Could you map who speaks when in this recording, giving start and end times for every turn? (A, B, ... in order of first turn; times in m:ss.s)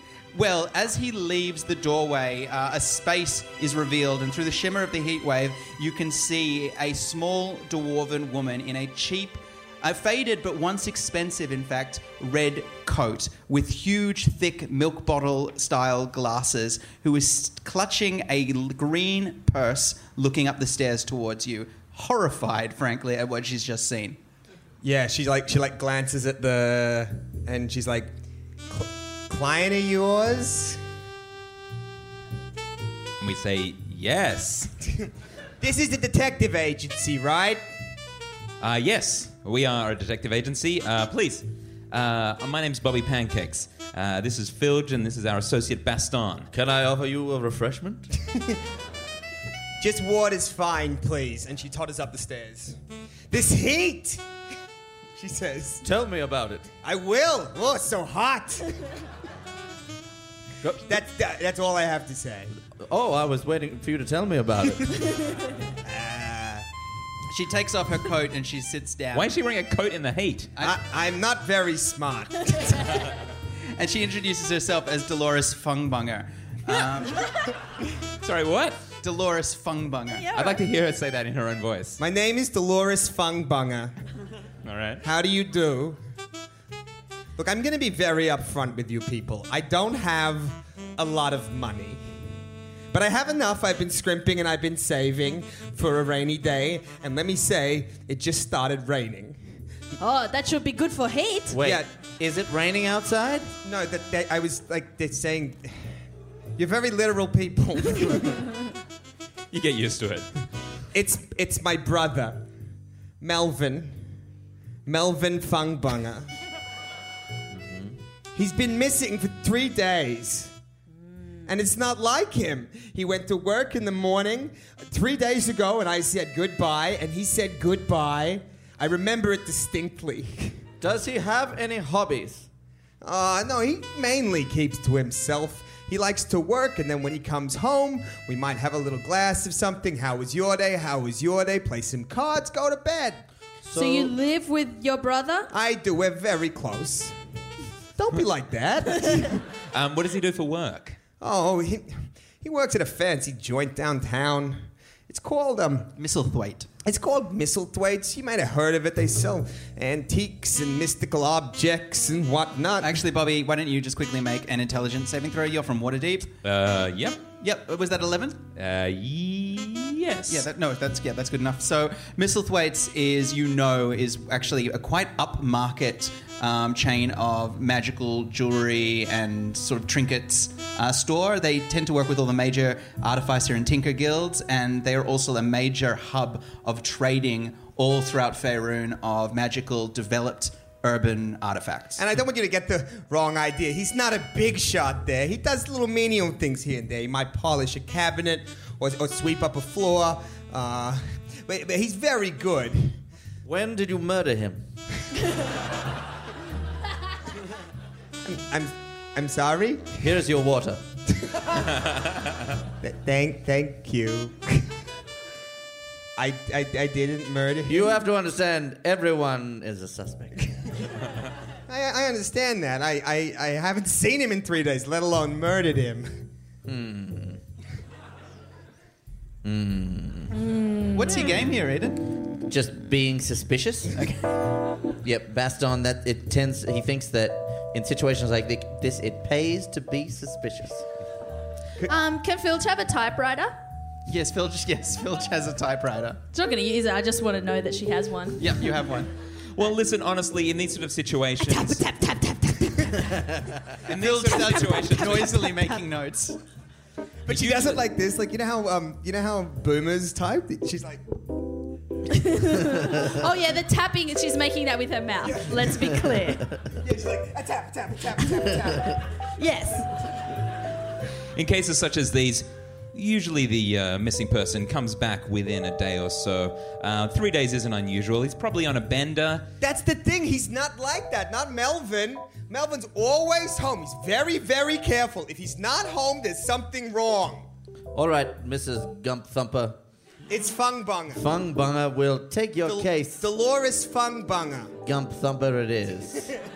0:00.3-0:24.2 A
0:24.8-0:28.1 B
0:28.7-0:30.8 B
0:33.2-0:34.7 C
0:35.6-0:37.6 B
0:38.6-0:46.5 C
0:46.5-0:48.1 D
0:49.8-0:52.8 B
0:53.3-0:54.2 B
0:55.2-0:55.8 B
0:55.8-0:56.7 D
0:56.8-0:59.0 B
1:00.8-1:02.5 B
1:02.7-1:05.0 D
1:05.8-1:06.7 B
1:07.3-1:09.3 A
1:09.1-1:10.5 C
1:10.6-1:13.1 B
1:13.8-1:17.3 A
1:18.2-1:18.8 C
1:19.0-1:20.3 A
1:20.1-1:20.6 E
1:20.3-1:22.0 C
1:22.0-1:24.0 B
1:24.6-1:25.0 C
1:25.0-1:26.0 B
1:27.4-1:32.0 B
1:32.9-1:39.4 B
1:40.0-1:41.6 E
1:41.5-1:43.5 D
1:41.6-1:41.9 B
1:43.6-1:45.7 B
1:46.6-1:48.6 B
1:49.5-1:50.3 C
1:50.9-1:52.5 B
1:53.2-1:54.0 B
1:54.9-1:56.3 B
1:57.5-1:58.0 D
1:58.3-2:00.5 B
2:01.5-2:10.6 B
2:10.8-2:12.5 D
2:13.0-2:23.2 B
2:23.6-2:24.1 D
2:23.7-2:25.5 E
2:25.5-2:27.2 B
2:28.0-2:29.4 B
2:29.7-2:31.0 C
2:31.2-2:35.9 B
2:36.0-2:36.7 A
2:36.8-2:43.0 B
2:42.8-2:46.4 A
2:46.4-2:47.2 C
2:47.4-2:48.4 A
2:48.6-2:50.5 C
2:50.3-3:12.0 A
3:12.0-3:23.0 B
3:23.4-3:24.7 D
3:28.2-3:30.0 B
3:30.0-3:30.8 D
3:31.3-3:31.6 B
3:32.8-3:34.7 B
3:36.2-3:38.0 B
3:37.6-3:40.6 D
3:41.7-3:46.3 B
3:46.6-3:47.4 D
3:49.4-3:50.3 D
3:50.3-3:51.2 E
3:50.9-3:52.1 A
3:52.5-3:54.1 D
3:54.0-3:54.3 A
3:55.0-4:00.8 D
4:01.9-4:03.6 E
4:04.1-4:06.2 A
4:06.3-4:08.4 E
4:08.4-4:09.1 A
4:09.5-4:11.8 C
4:11.4-4:13.3 E
4:13.9-4:15.5 C
4:13.9-4:16.4 A
4:14.2-4:15.8 E
4:17.3-4:21.1 B
4:17.3-4:17.8 C
4:22.1-4:26.5 E
4:25.3-4:26.0 B
4:26.8-4:29.1 B
4:29.4-4:29.9 E
4:31.4-4:39.5 C
4:39.6-4:47.5 B
4:47.9-4:49.8 D
4:50.3-4:51.2 B
4:51.1-4:53.3 D
4:52.6-4:54.8 B
4:54.8-4:56.3 D